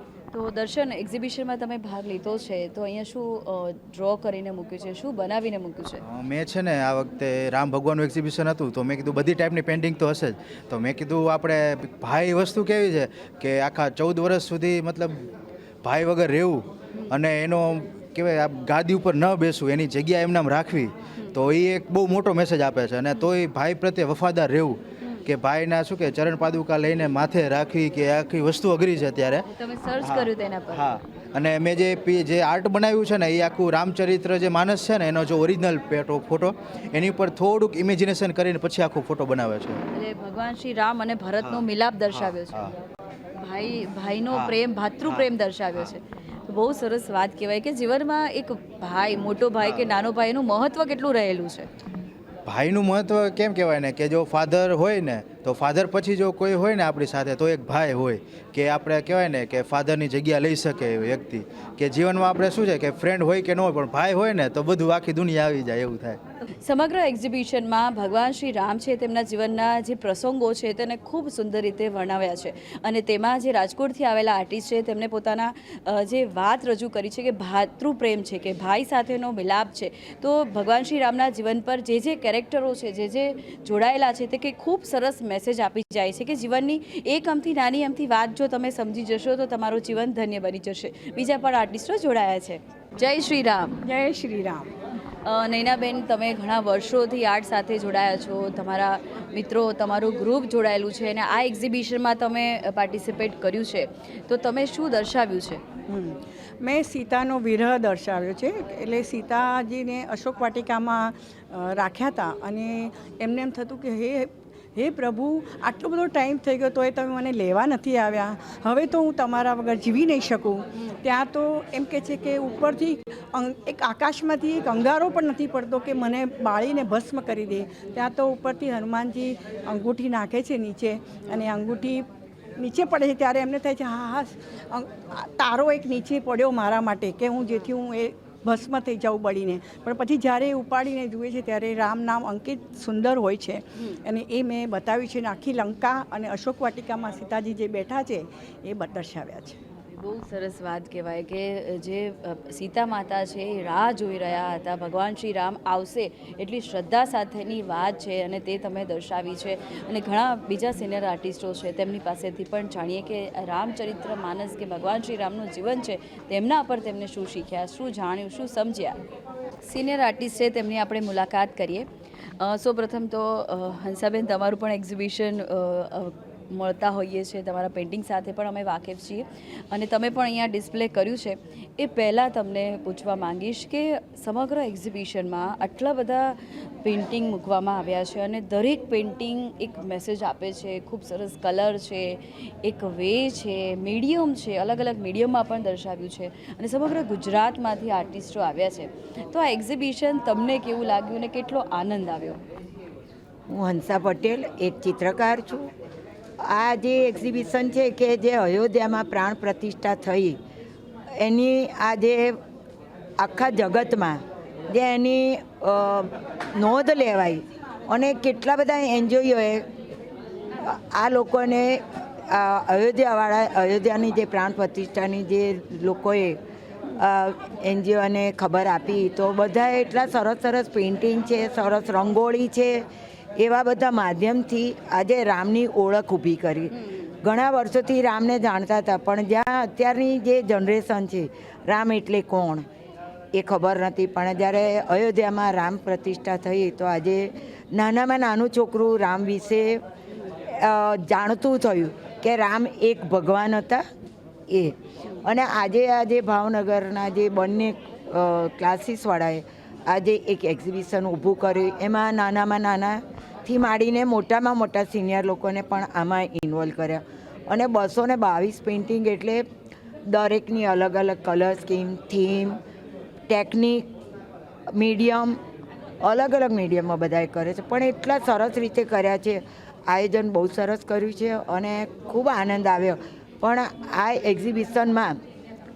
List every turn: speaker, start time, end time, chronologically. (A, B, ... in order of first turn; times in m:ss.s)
0:00.3-0:06.0 A
0:06.0-0:15.3 B
0:15.8-0:29.5 B
0:29.5-0:30.9 A
0:30.0-0:39.8 B
0:39.9-0:42.8 A
0:41.4-0:42.7 B
0:43.4-0:51.7 A
0:44.3-0:45.3 B
0:49.6-0:49.9 B
0:52.5-1:06.2 B
1:06.6-1:33.8 A
1:33.8-1:34.7 C
1:35.2-1:45.6 A
1:45.9-2:12.0 C
2:12.6-2:29.6 C
2:29.9-2:49.0 A
2:49.6-2:51.9 A
2:52.4-3:22.4 A
3:23.5-3:25.7 D
3:26.4-3:30.4 D
3:31.2-3:32.4 D
3:33.2-3:39.7 D
3:40.6-3:46.4 D
3:46.9-3:52.9 D
3:53.4-4:02.7 D
4:03.3-4:09.8 D
4:10.5-4:13.8 D
4:14.5-4:29.4 D
4:30.1-4:32.6 D
4:33.3-4:33.9 D
4:34.7-4:35.4 D
4:36.0-4:45.2 D